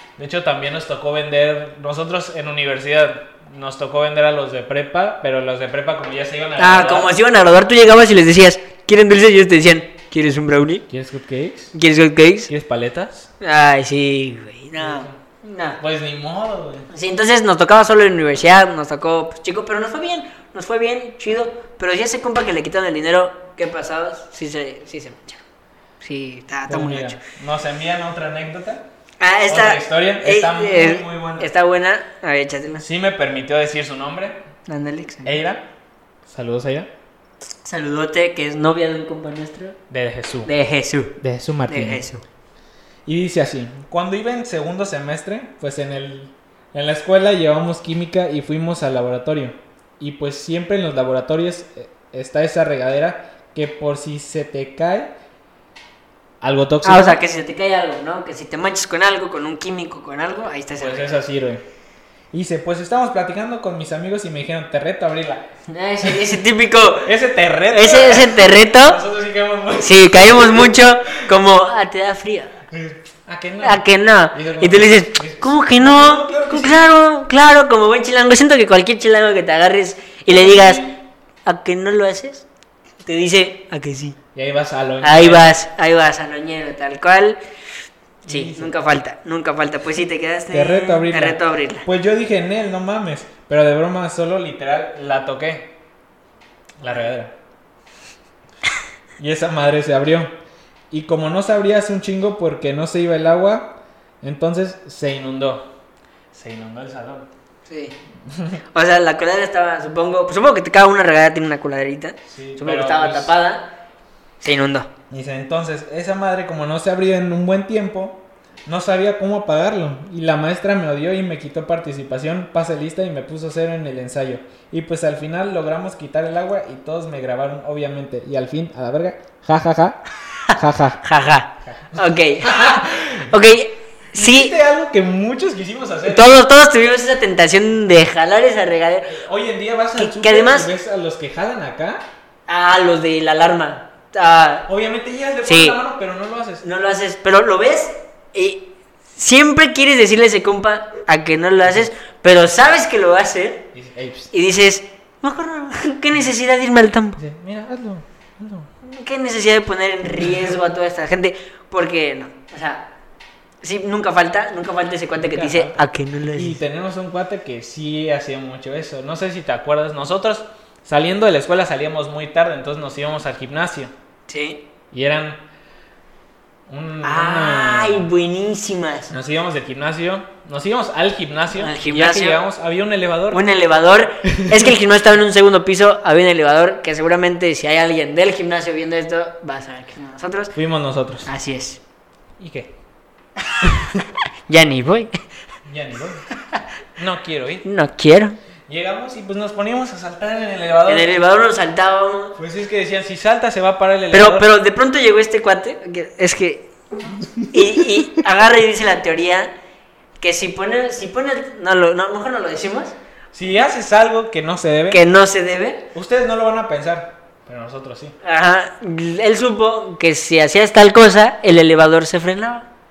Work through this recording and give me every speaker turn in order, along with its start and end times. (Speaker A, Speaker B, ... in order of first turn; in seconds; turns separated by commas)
Speaker A: 0.2-7.2, Speaker B: 6.6-10.9, Speaker A: 10.9-11.8, Speaker B: 11.7-12.5, Speaker A: 12.5-13.3, Speaker B: 13.4-15.8, Speaker A: 14.8-15.2, Speaker A: 15.8-16.9, Speaker B: 16.9-25.4, Speaker B: 26.0-27.2, Speaker A: 26.7-28.9, Speaker B: 29.2-32.9, Speaker A: 29.5-31.5, Speaker A: 32.8-34.4, Speaker B: 34.7-35.4, Speaker A: 35.2-35.7, Speaker A: 36.3-36.9, Speaker B: 37.6-39.8, Speaker A: 39.9-40.5, Speaker B: 40.5-42.2, Speaker A: 41.2-42.0, Speaker A: 43.1-55.1, Speaker A: 56.4-57.2, Speaker B: 56.8-61.2, Speaker A: 60.8-61.6, Speaker A: 62.3-65.5, Speaker B: 65.7-67.1, Speaker A: 66.0-66.3, Speaker A: 67.0-70.8, Speaker B: 67.7-69.0, Speaker B: 69.8-72.6, Speaker A: 72.7-76.8, Speaker B: 73.6-82.5, Speaker A: 80.3-81.0, Speaker B: 83.0-84.2, Speaker A: 84.3-85.5, Speaker B: 85.0-87.4, Speaker A: 88.3-88.8, Speaker B: 88.3-91.9, Speaker A: 90.5-95.8, Speaker A: 96.8-97.4, Speaker A: 99.2-100.3, Speaker A: 100.9-105.7, Speaker A: 106.3-107.3, Speaker B: 107.7-108.0, Speaker A: 108.3-108.6, Speaker B: 108.7-113.7, Speaker A: 112.2-113.3, Speaker B: 114.4-114.9, Speaker A: 115.1-131.0, Speaker B: 130.4-134.6, Speaker A: 131.7-133.3, Speaker A: 134.1-136.3, Speaker B: 136.1-139.2, Speaker A: 139.1-142.1, Speaker B: 140.0-140.7, Speaker B: 142.5-144.7, Speaker A: 144.7-146.6, Speaker B: 145.4-145.8, Speaker B: 146.6-153.7, Speaker A: 153.7-154.3, Speaker B: 154.3-157.2, Speaker A: 157.2-158.7, Speaker B: 158.8-162.9, Speaker B: 163.6-166.6, Speaker A: 165.2-165.8, Speaker A: 166.3-173.9, Speaker B: 174.3-174.6, Speaker A: 174.9-175.4, Speaker A: 176.7-178.1, Speaker B: 177.0-179.2, Speaker A: 179.1-183.4, Speaker B: 181.5-182.4, Speaker B: 183.3-190.6, Speaker A: 184.3-184.7, Speaker A: 190.6-191.3, Speaker B: 191.3-191.8, Speaker A: 192.4-192.7, Speaker B: 193.5-195.1, Speaker A: 195.7-196.2, Speaker A: 197.0-197.7, Speaker B: 197.6-198.4, Speaker A: 198.7-201.2, Speaker B: 200.9-202.4, Speaker A: 202.4-204.5, Speaker B: 204.1-206.8, Speaker A: 207.2-208.0, Speaker B: 207.4-209.5, Speaker B: 210.2-213.0, Speaker A: 213.3-215.0, Speaker B: 214.9-215.9, Speaker A: 215.9-218.2, Speaker B: 218.2-222.7